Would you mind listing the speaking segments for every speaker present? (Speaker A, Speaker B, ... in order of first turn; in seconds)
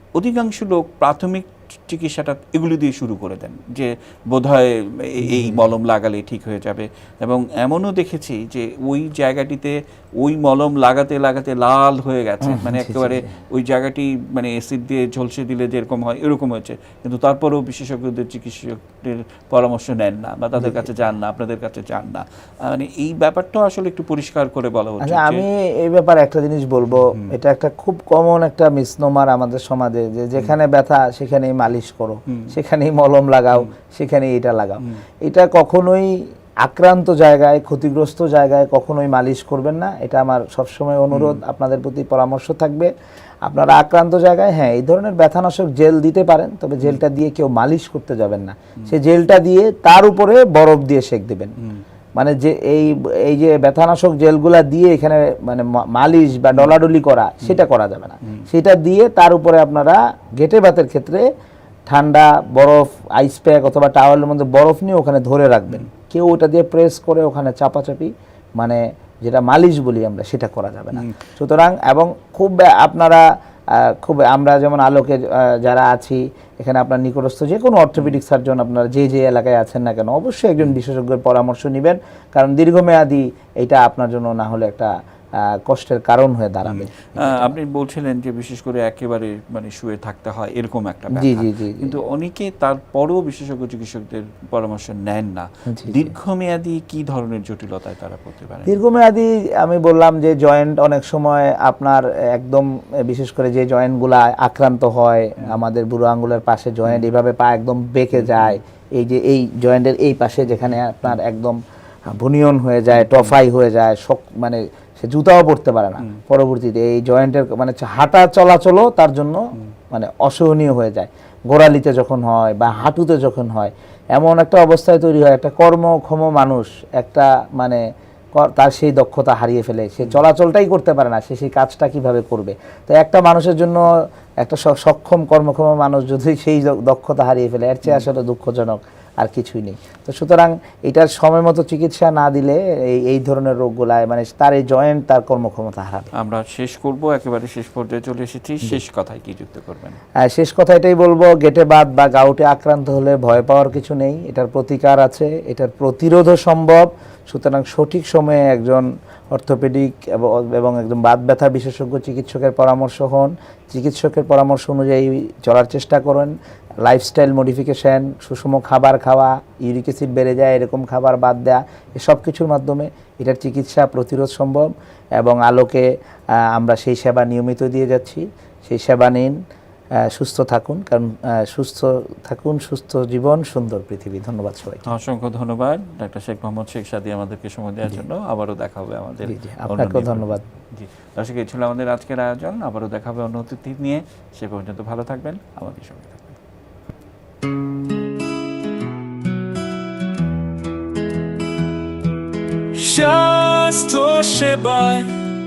Speaker A: 0.1-25.4, 26.9-27.3, 41.1-41.4, 86.7-98.7, 108.2-108.6, 112.9-113.4, 146.1-150.0, 184.8-196.4
Speaker B: 5.2-5.6, 12.4-13.3, 20.6-20.8, 25.0-42.9, 43.5-51.5, 52.2-61.2, 61.9-87.5, 91.1-92.0, 95.7-96.1, 98.7-127.8, 128.3-133.8, 134.4-146.1, 150.2-179.4, 180.0-184.8, 189.2-190.4
Speaker C: 202.7-205.1